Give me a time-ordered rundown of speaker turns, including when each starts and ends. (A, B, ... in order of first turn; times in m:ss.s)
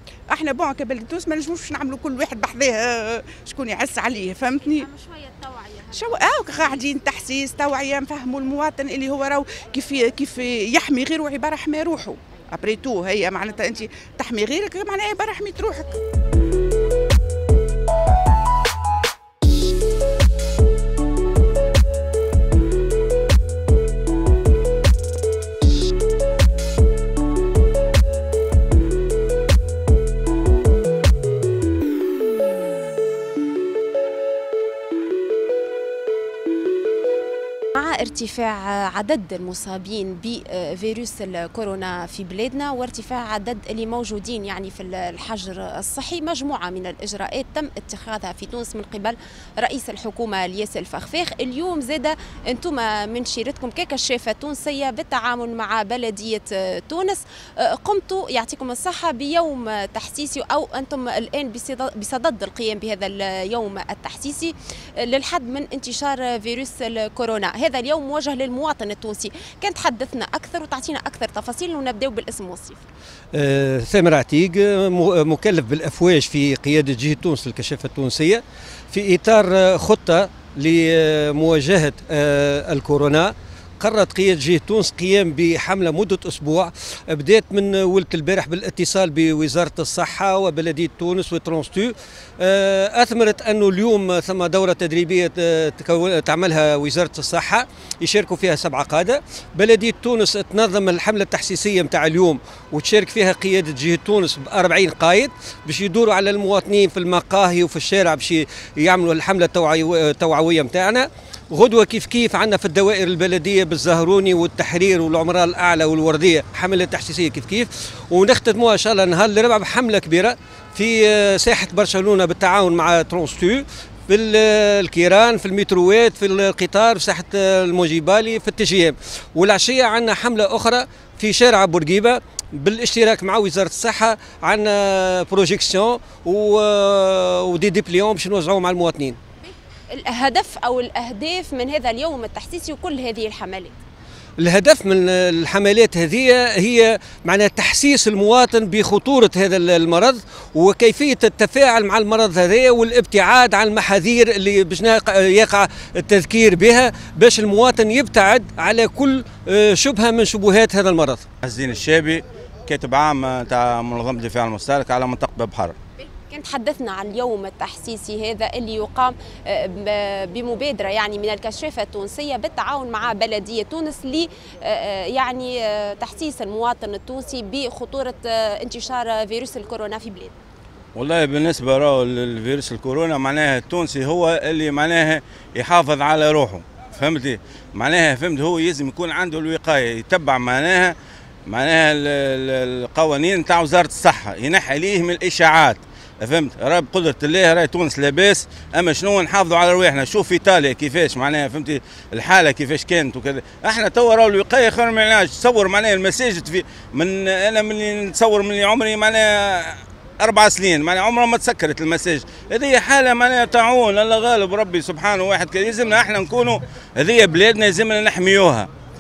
0:00.3-0:04.9 A
0:04.7-0:06.6 B
0:05.9-0:16.0 A
0:37.8-1:12.8 B
1:13.3-2:19.2 C
2:19.4-2:23.8 B
2:24.4-2:41.3 C
2:41.4-2:45.8 D
2:46.0-3:00.4 B
3:01.0-3:38.7 D